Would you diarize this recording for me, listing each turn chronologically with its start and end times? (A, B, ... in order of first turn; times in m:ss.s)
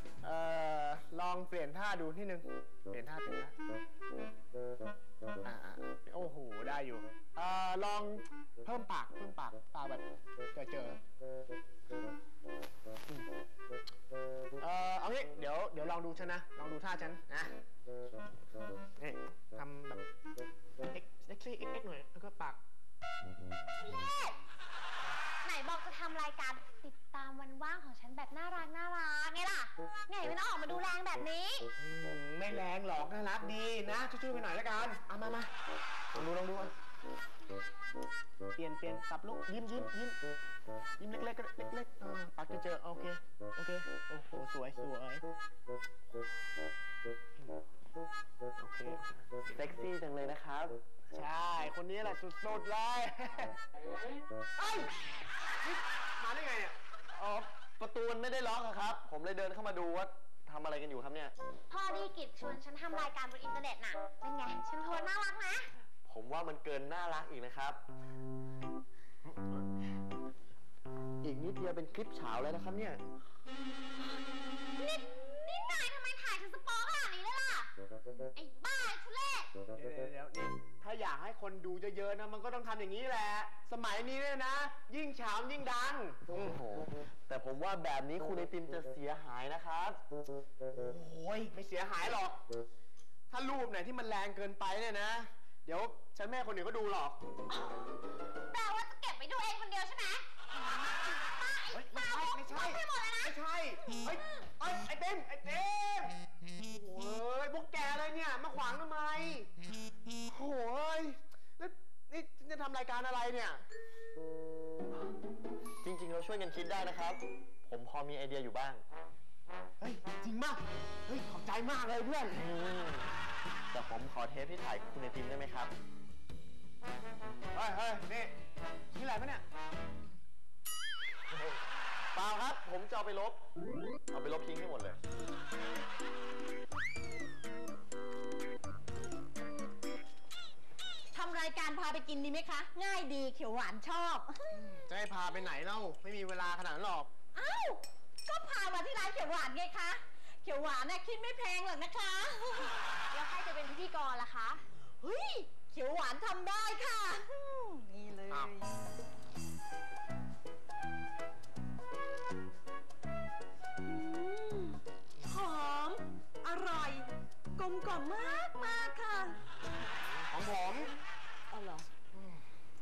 0:00.2-0:03.5 A
0:05.4-0:10.0 A
0:10.5-0:11.0 A
0:14.6-0:17.5 A
0:19.0-0:20.0 A
0:20.9-0:22.6 A
0:23.8-0:24.4 B
0:25.4-0:31.7 B
0:31.8-0:35.5 A
0:36.1-0:36.7 A
0:38.6-0:40.2 A
0:41.0-0:45.2 A
0:48.6-0:49.0 A
0:49.4-0:50.8 C
0:51.1-0:53.6 A
0:54.6-0:54.9 A
0:55.6-0:56.8 A
0:57.1-1:01.3 C
1:01.7-1:05.7 B
1:06.0-1:07.8 C
1:11.2-1:13.0 C
1:14.7-1:17.7 B
1:18.3-1:19.5 B
1:19.7-1:26.5 A
1:26.3-1:30.0 C
1:30.7-1:32.4 A
1:33.3-1:37.2 A
1:37.5-1:37.9 B
1:38.5-1:43.3 B
1:41.7-1:49.5 A
1:44.1-1:44.4 B
1:50.2-1:53.6 A
1:55.8-1:58.8 C
1:59.8-2:02.5 A
2:02.4-2:03.2 C
2:03.7-2:05.7 C
2:07.5-2:08.3 A
2:08.9-2:09.4 A
2:12.1-2:13.4 C
2:14.1-2:15.0 C
2:21.1-2:24.6 D
2:24.5-2:27.1 A
2:27.3-2:32.8 D
2:33.1-2:34.6 B
2:35.0-2:38.7 D
2:43.8-2:49.4 D
2:50.3-2:50.9 A
2:51.5-2:51.8 D
2:52.1-2:52.4 A